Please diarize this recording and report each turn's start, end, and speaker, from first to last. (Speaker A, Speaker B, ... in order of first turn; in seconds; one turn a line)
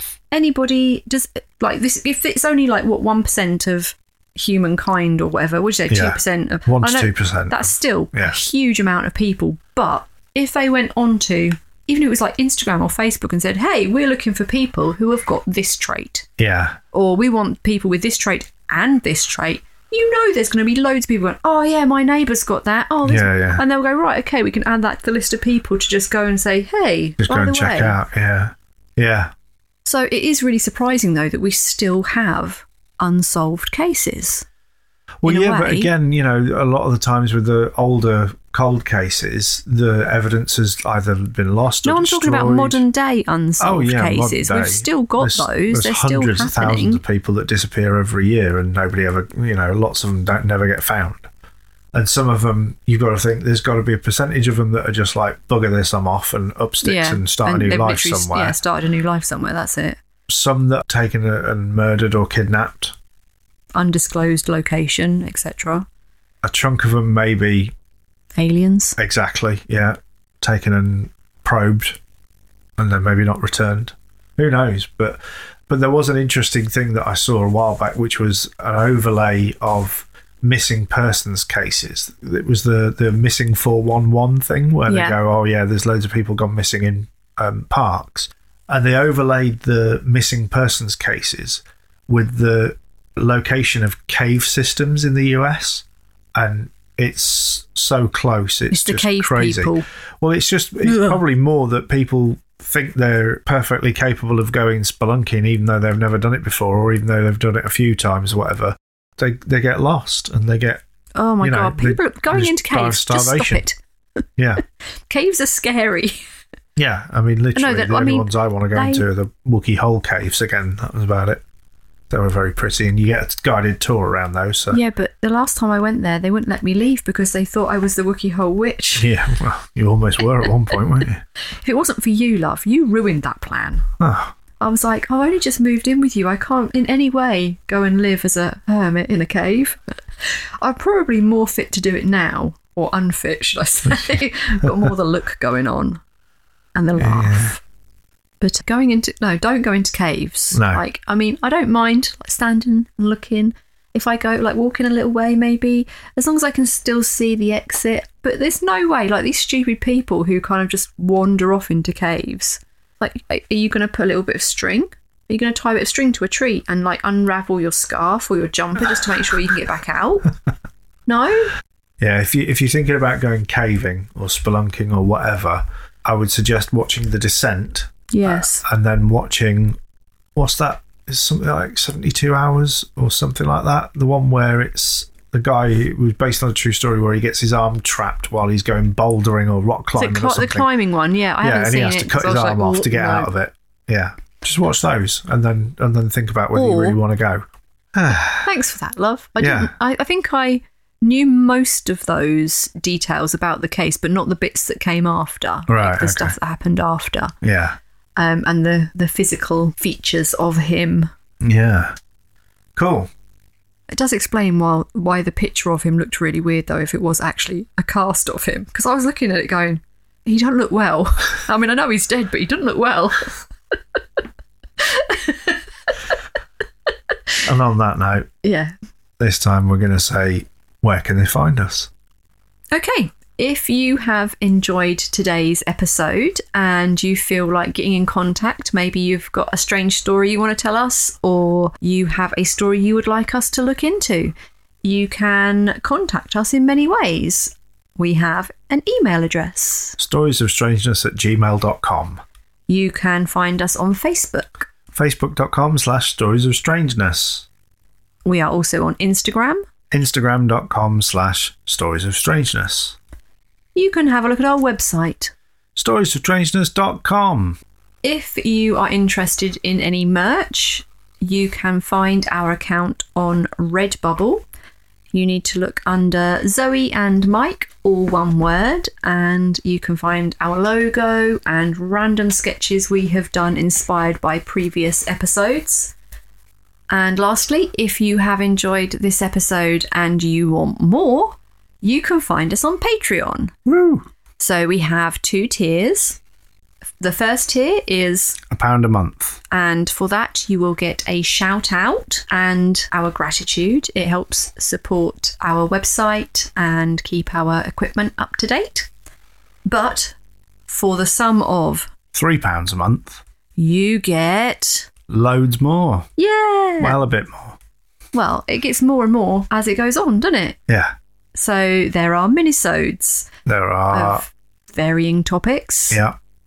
Speaker A: 0.3-16.3
Speaker B: 5.9-8.4
Speaker B: 16.4-16.8
Speaker A: 16.9-28.0
Speaker B: 23.0-23.6
Speaker B: 27.2-29.3
Speaker A: 29.9-34.5
Speaker B: 35.2-42.8
Speaker A: 35.2-35.9
Speaker A: 41.8-47.0
Speaker B: 43.6-51.3
Speaker B: 51.9-58.6
Speaker A: 56.8-60.0
Speaker B: 60.3-63.0
Speaker A: 63.8-65.9
Speaker B: 66.4-67.7
Speaker A: 68.4-69.0
Speaker B: 69.0-72.0
Speaker B: 72.8-110.8
Speaker A: 84.9-85.2
Speaker A: 98.7-99.8
Speaker A: 100.8-101.2
Speaker A: 111.2-113.8
Speaker B: 111.4-113.6
Speaker B: 114.4-114.6
Speaker A: 115.1-116.2
Speaker B: 116.8-121.4
Speaker A: 117.5-119.0
Speaker B: 122.1-124.8
Speaker A: 124.7-129.1
Speaker B: 129.0-131.2
Speaker A: 131.6-133.9
Speaker B: 134.0-134.3
Speaker A: 134.6-146.0
Speaker A: 146.8-147.6
Speaker B: 147.0-147.5
Speaker A: 148.4-170.3
Speaker B: 150.5-150.8
Speaker A: 171.1-171.5
Speaker B: 172.0-179.8
Speaker A: 178.1-178.7
Speaker B: 180.3-190.7
Speaker A: 189.9-193.3
Speaker B: 191.4-198.5
Speaker A: 196.5-197.0
Speaker A: 198.4-207.3
Speaker B: 199.4-199.7
Speaker B: 205.7-206.4
Speaker B: 207.4-207.8
Speaker A: 208.2-211.1
Speaker B: 211.4-211.9
Speaker B: 212.8-213.1
Speaker A: 213.9-223.4
Speaker A: 224.8-225.6
Speaker B: 227.4-228.3
Speaker A: 228.4-228.7
Speaker B: 229.2-231.9
Speaker A: 232.7-250.0
Speaker B: 250.0-252.2
Speaker A: 252.7-254.7
Speaker B: 254.9-257.5
Speaker A: 258.2-259.6
Speaker B: 259.9-263.0
Speaker A: 263.8-265.3
Speaker B: 265.8-267.6
Speaker A: 268.0-274.4
Speaker A: 275.1-285.9
Speaker A: 286.9-293.5
Speaker B: 293.7-294.1
Speaker A: 294.4-296.2
Speaker A: 297.0-298.4
Speaker B: 298.5-299.4
Speaker A: 299.5-308.9
Speaker A: 309.6-310.1
Speaker A: 310.7-311.9
Speaker B: 312.1-313.2
Speaker A: 313.6-314.9
Speaker B: 315.1-316.1
Speaker A: 316.2-317.0
Speaker B: 316.8-317.6
Speaker A: 318.1-320.6
Speaker B: 320.7-320.9
Speaker A: 321.4-323.3
Speaker B: 323.4-324.2
Speaker A: 323.9-326.0
Speaker B: 325.9-326.2